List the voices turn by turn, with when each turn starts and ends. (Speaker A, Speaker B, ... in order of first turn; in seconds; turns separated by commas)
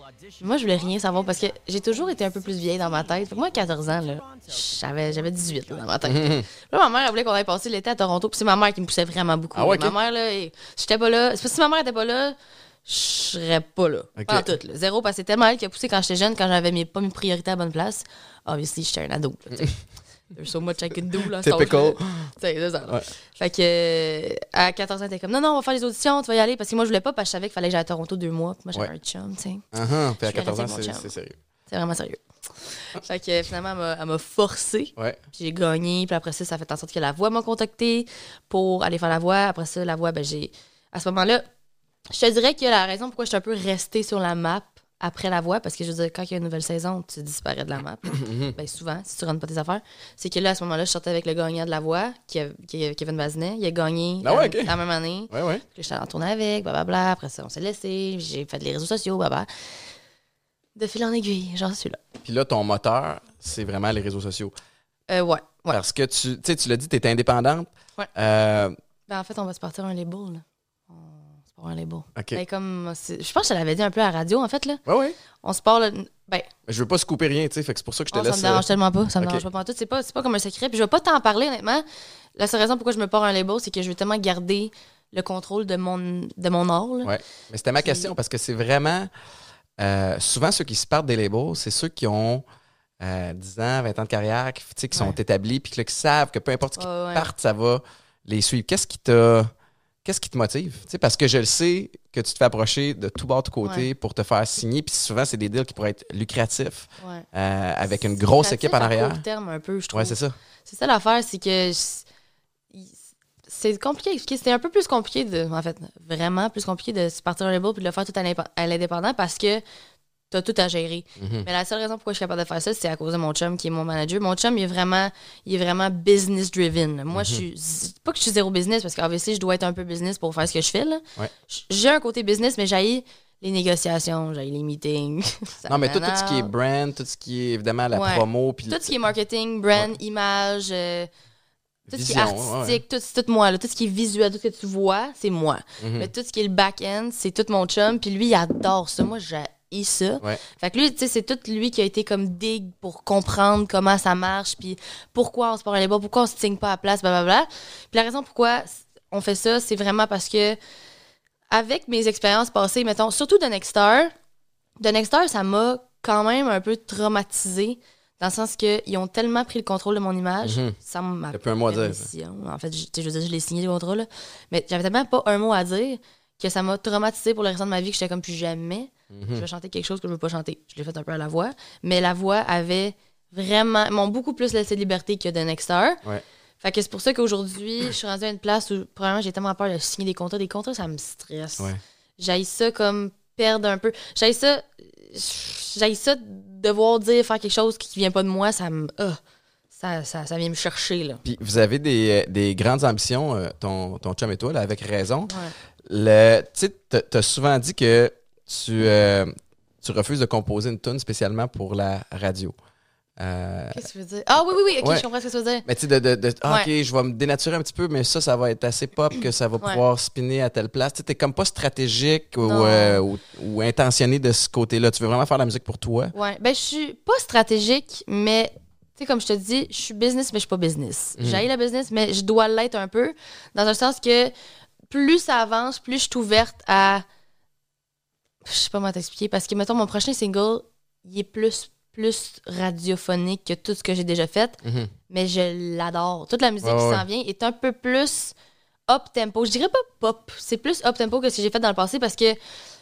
Speaker A: 0.4-12.3, Speaker B: 6.0-6.5, Speaker B: 9.5-9.9, Speaker A: 12.9-19.8, Speaker B: 14.2-14.5, Speaker A: 20.3-29.6, Speaker B: 21.4-22.3, Speaker B: 29.7-31.4, Speaker A: 30.2-31.1, Speaker A: 31.7-32.2, Speaker A: 32.8-41.4, Speaker A: 42.1-59.5, Speaker B: 48.1-48.5, Speaker B: 54.2-54.8, Speaker B: 55.3-55.6, Speaker A: 60.8-62.0, Speaker B: 62.2-64.5, Speaker A: 65.1-65.8, Speaker B: 65.7-68.8, Speaker A: 69.1-74.8, Speaker B: 72.2-72.4, Speaker B: 74.9-75.2, Speaker A: 75.4-76.5, Speaker B: 76.7-78.7, Speaker A: 78.1-81.8, Speaker A: 82.4-87.1, Speaker B: 87.0-89.1, Speaker A: 87.8-88.1, Speaker B: 89.8-92.5, Speaker B: 93.0-99.5, Speaker A: 96.8-97.3, Speaker B: 100.0-109.2, Speaker A: 107.0-107.2, Speaker A: 108.2-112.1, Speaker B: 109.9-110.4, Speaker A: 112.7-119.6, Speaker A: 120.3-136.5, Speaker B: 121.2-121.5, Speaker B: 127.1-127.4, Speaker B: 135.7-138.9, Speaker A: 137.9-141.1, Speaker B: 141.9-142.8, Speaker A: 141.9-160.6, Speaker B: 145.8-146.1, Speaker A: 161.5-164.1, Speaker A: 164.8-186.0, Speaker B: 170.4-170.8, Speaker B: 171.3-172.1, Speaker B: 179.1-179.4, Speaker A: 186.6-199.2, Speaker A: 199.7-201.2, Speaker B: 201.2-205.3, Speaker A: 205.3-205.5, Speaker B: 205.8-212.6, Speaker B: 213.2-213.8, Speaker A: 213.7-215.7, Speaker B: 215.7-226.1, Speaker A: 222.4-223.0, Speaker A: 226.1-234.3, Speaker B: 231.2-231.4, Speaker A: 234.9-237.1, Speaker A: 238.4-248.3, Speaker B: 244.6-244.9, Speaker B: 246.6-247.1, Speaker A: 248.9-252.4